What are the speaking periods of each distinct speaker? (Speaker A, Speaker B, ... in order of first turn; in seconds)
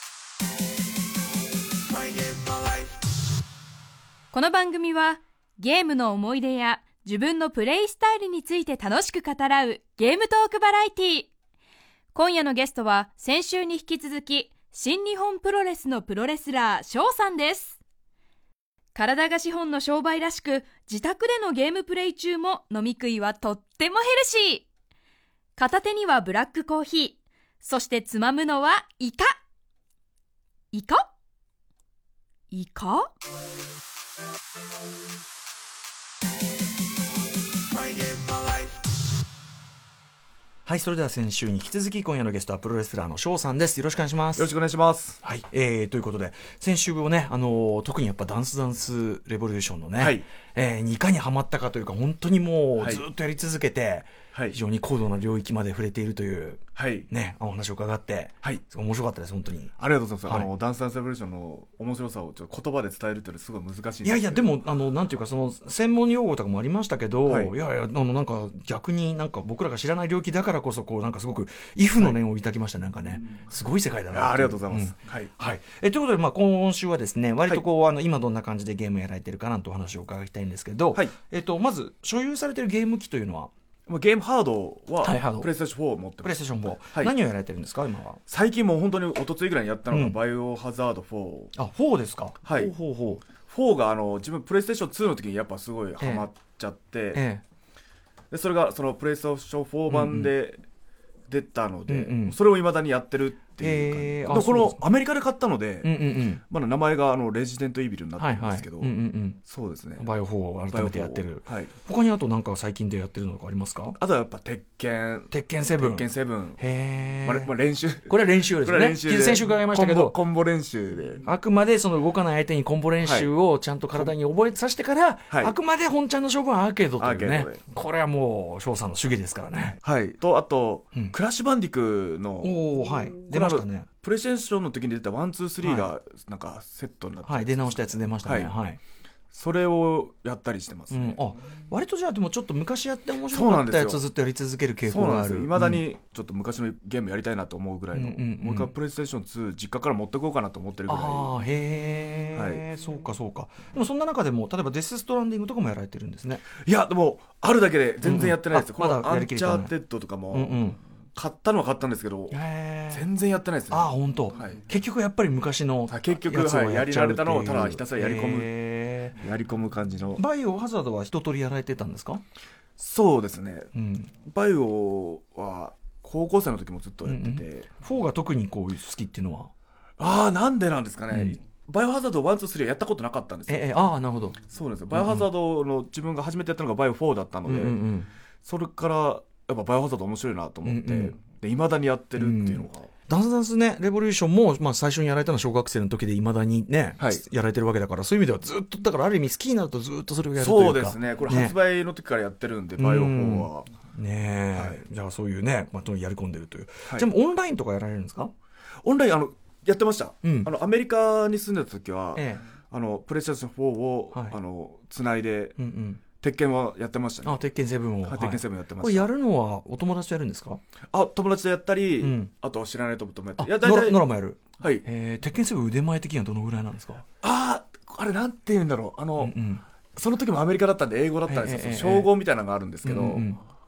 Speaker A: 2.2-2.7, 4.3-11.3, 12.1-17.8, 18.9-24.6, 25.6-29.3, 30.7-31.0, 32.5-33.1
Speaker B: 40.6-44.5, 45.2-59.7, 64.0-83.5, 85.0-85.5, 86.2-88.2, 89.9-90.2, 91.5-93.2, 96.0-96.3, 97.1-97.4, 99.9-100.3, 101.9-102.4, 103.6-104.8, 105.8-106.4, 108.2-109.4, 110.0-114.0, 115.3-116.1, 116.6-117.5, 118.1-120.2, 121.2-129.8, 132.4-133.9, 135.6-135.9, 137.3-138.8, 140.9-145.8, 147.9-148.7, 150.9-156.4, 158.0-159.7, 160.3-160.8, 162.3-163.0, 163.7-169.2, 170.2-172.2, 173.7-174.1, 177.0-179.5, 181.1-181.4, 183.5-185.3, 187.4-188.1, 190.6-191.2, 192.2-201.6, 202.8-208.3, 210.2-210.5, 212.1-212.4, 215.6-216.0, 217.2-220.6, 222.0-222.3, 223.4-227.1, 229.2-229.6, 231.3-232.1, 232.8-233.4
Speaker C: 44.3-45.2, 50.0-50.2, 52.8-53.0, 56.7-57.1, 59.8-64.5, 67.2-67.5, 74.1-75.3, 83.9-87.1, 88.3-91.5, 92.4-92.7, 93.4-97.2, 98.3-100.6, 101.3-108.9, 109.5-110.0, 110.7-111.7, 114.0-116.6, 117.2-121.2, 123.0-123.3, 125.3-125.5, 127.0-127.6, 129.8-132.6, 133.2-138.5, 139.3-141.2, 143.3-144.0, 144.8-151.3, 152.3-152.6, 156.6-160.6, 161.1-162.4, 162.9-164.6, 165.9-168.5, 169.1-170.2, 172.8-173.7, 174.2-177.7, 180.0-183.7, 184.5-187.8, 188.4-192.9, 200.4-203.7, 204.5-204.8, 208.8-215.6, 216.2-217.4, 218.0-219.1, 220.9-224.0, 224.6-224.8, 227.2-229.4, 229.9-233.3